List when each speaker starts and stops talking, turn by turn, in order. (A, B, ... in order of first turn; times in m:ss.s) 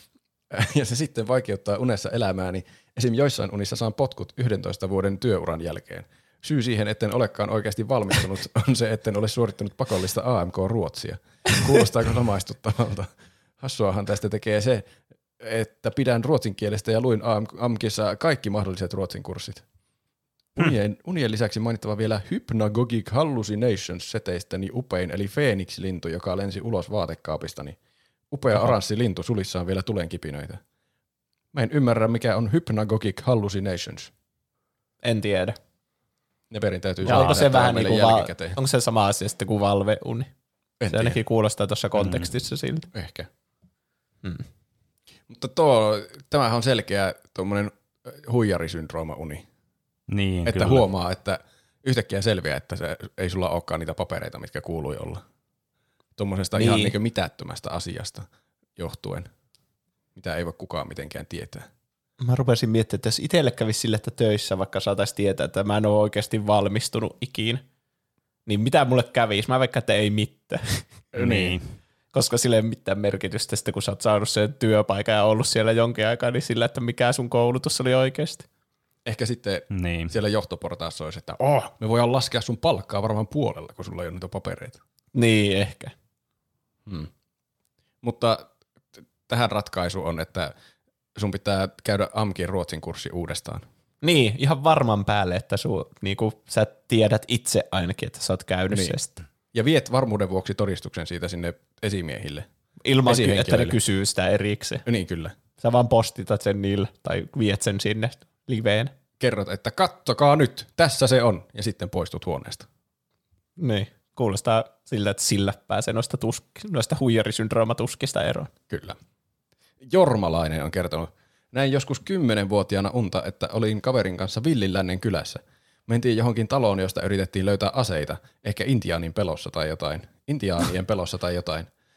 0:00.5-0:19.6 A
0:20.5-0:27.8 A
0:28.3-0:30.6 A
0:31.5-0:34.1 A
0:35.0-0:35.6 B
0:36.5-0:38.6 A
0:37.0-0:40.3 B
0:40.8-0:41.2 A
0:40.9-0:42.9 B
0:42.0-0:42.3 C
0:42.9-0:43.3 A
0:45.3-0:49.4 A
0:50.1-0:50.8 C
0:50.4-0:55.2 A
0:56.2-0:59.3 A
0:56.5-0:56.9 B
1:00.2-1:01.7 A
1:02.2-1:07.6 B
1:08.4-1:10.9 B
1:11.1-1:11.6 A
1:11.2-1:11.7 C
1:12.1-1:18.4 B
1:19.0-1:24.8 A
1:19.7-1:20.1 C
1:25.1-1:25.9 B
1:28.0-1:30.5 A
1:31.2-1:33.6 A
1:34.0-1:39.2 B
1:39.5-1:42.5 A
1:42.8-1:44.8 B
1:43.0-1:43.8 A
1:44.8-1:45.3 A
1:45.6-1:48.9 B
1:49.2-1:52.7 A
1:53.6-1:58.5 B
1:58.7-1:59.0 A
1:59.8-2:11.7 A